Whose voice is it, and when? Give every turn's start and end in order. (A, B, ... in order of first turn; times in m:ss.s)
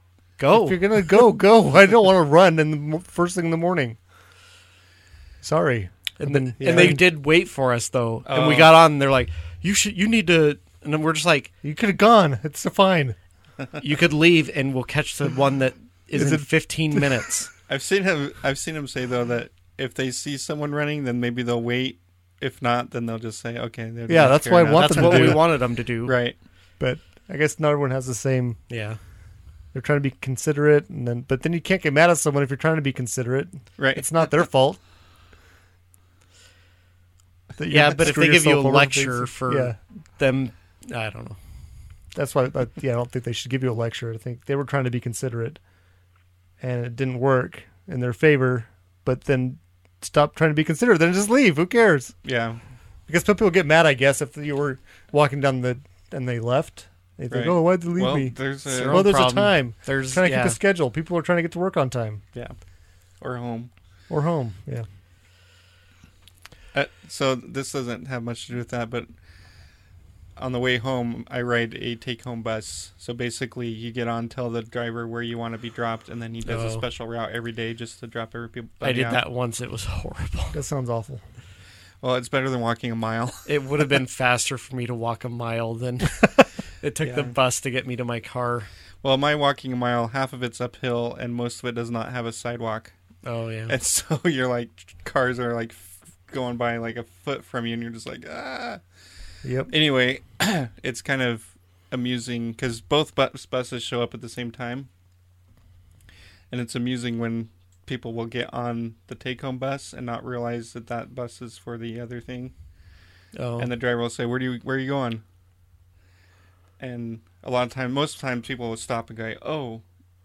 0:00.4-0:00.8 A
0:00.5-0:04.0 B
0:05.4-0:07.0 B
0:06.2-0:11.5 A
0:06.6-0:07.0 C
0:08.3-0:08.7 C
0:11.6-0:13.2 B
0:13.8-0:17.5 A
0:16.1-0:17.3 B
0:17.7-0:26.4 C
0:24.1-0:25.5 B
0:24.8-0:26.2 A
0:26.8-0:28.6 B
0:28.7-0:29.0 A
0:29.7-0:34.8 B
0:33.8-0:34.5 C
0:37.6-0:39.8 B
0:37.7-0:41.4 A
0:42.1-0:45.6 B
0:46.6-0:52.2 B
0:52.2-0:52.6 C
0:53.1-1:02.2 B
0:57.3-0:59.1 C
0:58.7-1:00.6 A
1:03.2-1:03.7 C
1:04.1-1:04.9 B
1:06.7-1:09.1 C
1:10.4-1:19.2 C
1:16.5-1:16.8 A
1:18.8-1:20.6 A
1:20.5-1:21.2 B
1:22.0-1:23.5 C
1:23.5-1:28.7 A
1:27.0-1:27.3 C
1:29.0-1:32.9 C
1:33.2-1:33.8 A
1:33.7-1:38.8 C
1:39.4-1:39.7 B
1:39.7-1:44.9 C
1:46.5-1:52.5 C
1:53.4-1:53.7 A
1:53.6-1:55.2 C
1:56.8-1:59.8 C